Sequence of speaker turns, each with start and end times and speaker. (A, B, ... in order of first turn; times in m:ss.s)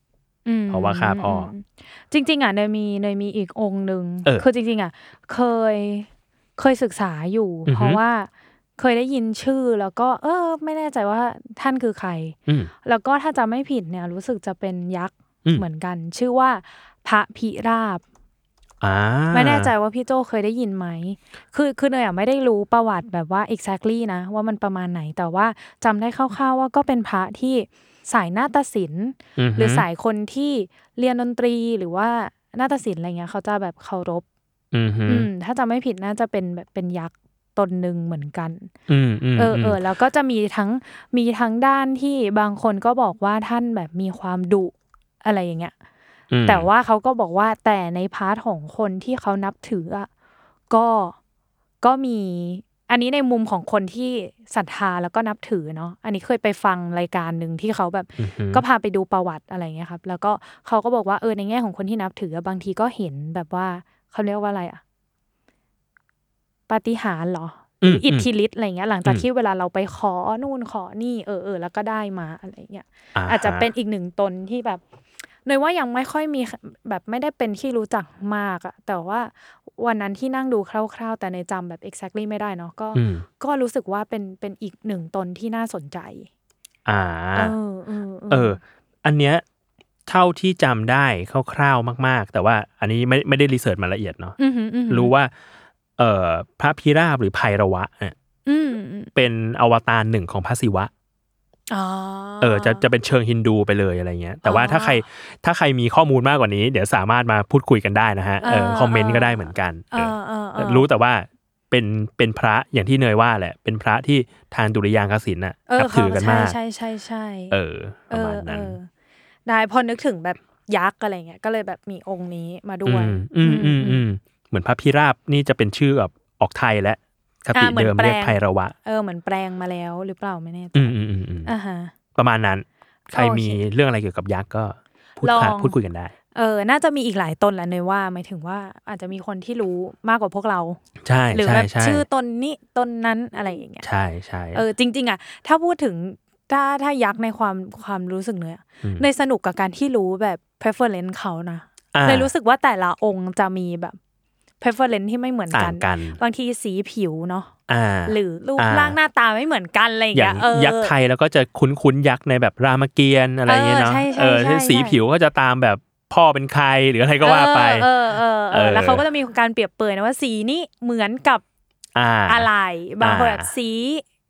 0:00.4-0:18.0 A
0:00.7-0:01.5 B
0:07.7-0:08.0 B
0:18.8-0:19.7 B
0:19.3-0:34.2 A
0:29.4-0:29.8 B
0:34.7-0:35.3 B
0:35.1-0:38.7 A
0:38.9-0:39.8 B
0:39.4-0:45.7 A
0:46.3-0:46.7 B
0:46.4-0:50.1 A
0:50.7-0:51.2 A
0:51.8-1:04.8 A
0:58.2-0:58.6 B
1:06.7-1:14.8 A
1:07.8-1:08.3 B
1:13.1-1:13.7 B
1:15.4-1:26.3 A
1:22.9-1:23.2 B
1:26.8-1:27.5 B
1:27.3-1:28.6 A
1:28.3-1:29.4 B
1:30.1-1:34.4 B
1:34.4-1:35.1 A
1:34.9-1:35.3 B
1:36.0-1:38.1 B
1:38.4-1:39.1 A
1:39.1-1:40.9 B
1:41.7-1:42.8 A
1:42.4-1:56.6 B
1:44.4-1:45.0 A
1:48.4-1:50.9 A
1:55.7-1:57.6 A
1:57.5-1:58.8 B
1:58.1-1:58.9 A
1:59.4-2:04.0 A
2:02.8-2:08.7 B
2:07.5-2:11.9 A
2:10.7-2:11.5 B
2:12.1-2:16.1 B
2:13.1-2:13.6 A
2:15.2-2:15.8 A
2:16.3-2:20.8 A
2:21.0-2:22.0 B
2:21.3-2:23.8 A
2:23.8-2:24.6 B
2:24.5-2:34.0 A
2:31.9-2:32.3 B
2:34.6-2:37.5 A
2:35.5-2:36.2 B
2:37.7-2:39.0 B
2:38.0-2:40.9 A
2:40.1-2:47.9 B
2:43.5-2:45.0 A
2:47.2-2:51.4 A
2:48.5-2:49.0 B
2:51.9-2:52.5 B
2:52.3-2:54.0 A
2:53.0-2:53.5 B